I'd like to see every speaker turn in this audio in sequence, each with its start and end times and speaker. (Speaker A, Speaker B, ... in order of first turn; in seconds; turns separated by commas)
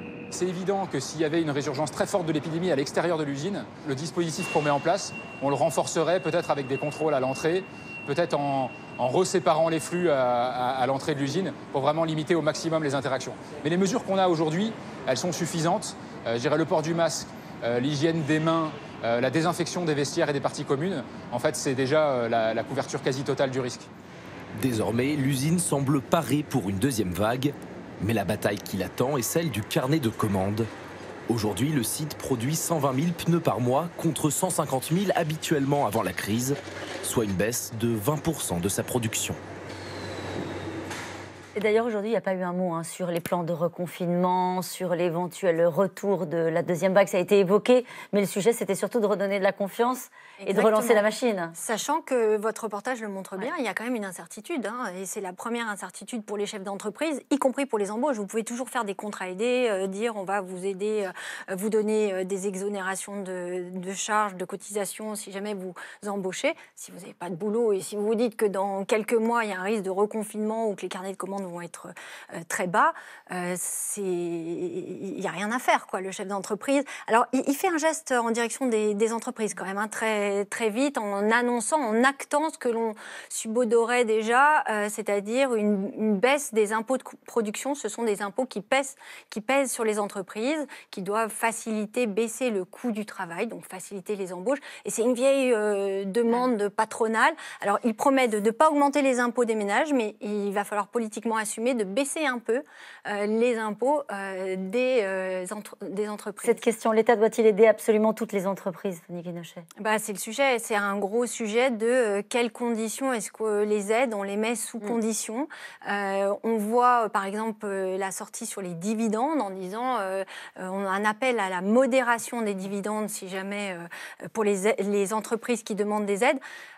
Speaker A: 0.3-23.9, Speaker B: 24.5-30.7, Speaker B: 31.3-39.4, Speaker C: 41.5-51.5, Speaker D: 50.4-51.0, Speaker D: 51.5-106.6, Speaker C: 106.4-109.7, Speaker D: 109.8-126.4